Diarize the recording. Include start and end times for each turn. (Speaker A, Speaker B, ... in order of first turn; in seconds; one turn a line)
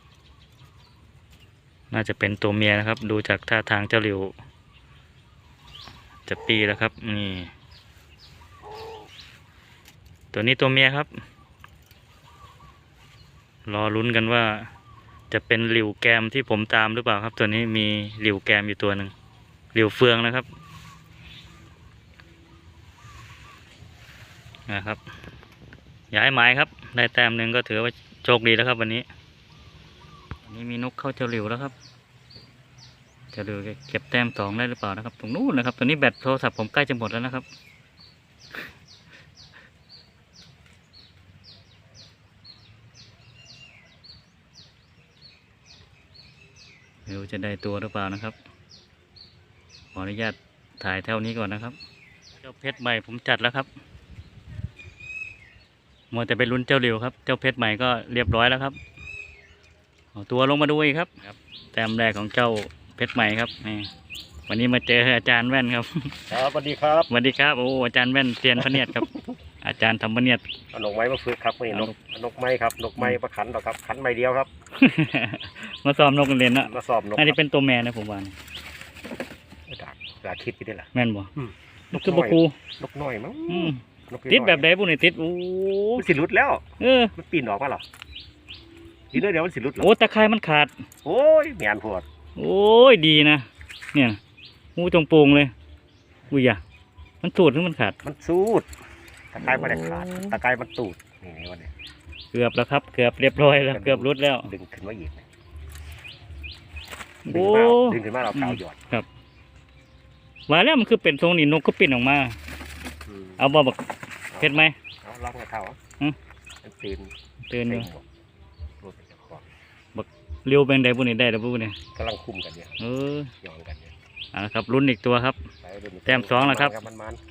Speaker A: 1.9-4.3
Speaker A: 6.2-7.5
Speaker A: 10.3-11.1
Speaker A: 13.7-14.7
Speaker A: 15.3-19.1
Speaker A: 19.7-20.5
Speaker A: 24.7-25.0
Speaker A: 26.1-29.1
Speaker A: 30.4-31.7
Speaker A: 33.3-37.5
Speaker A: 47.1-48.4
Speaker A: 49.9-51.8
Speaker A: 52.4-53.7
Speaker A: 56.1-58.8
Speaker A: 60.1-63.9
Speaker A: 64.5-66.2
Speaker B: 66.3-67.1
Speaker A: 67.1-69.1
Speaker A: 69.6-70.4
Speaker B: 70.7-74.5
Speaker A: 74.8-78.4
Speaker B: 76.6-77.4
Speaker B: 79.7-84.7
Speaker A: 80.9-81.3
Speaker A: 81.9-82.5
Speaker A: 83.5-86.1
Speaker B: 86.0-87.8
Speaker A: 86.8-87.1
Speaker B: 89.1-89.9
Speaker A: 89.8-90.8
Speaker B: 91.0-92.0
Speaker A: 92.4-94.2
Speaker A: 94.8-95.5
Speaker A: 96.3-96.6
Speaker A: 97.2-98.0
Speaker B: 98.0-98.7
Speaker B: 99.3-101.7
Speaker A: 99.4-100.4
Speaker A: 102.3-104.5
Speaker B: 103.7-105.2
Speaker A: 107.2-109.1
Speaker B: 107.3-108.8
Speaker A: 110.5-112.4
Speaker B: 113.1-113.4
Speaker A: 113.4-113.8
Speaker B: 114.3-115.8
Speaker A: 114.4-114.8
Speaker B: 116.6-117.1
Speaker A: 117.5-117.9
Speaker B: 117.7-118.0
Speaker B: 118.8-119.5
Speaker A: 120.0-121.8
Speaker B: 122.0-122.8
Speaker A: 122.8-123.3
Speaker B: 123.4-123.9
Speaker A: 124.3-125.4
Speaker B: 125.6-127.2
Speaker A: 126.1-126.8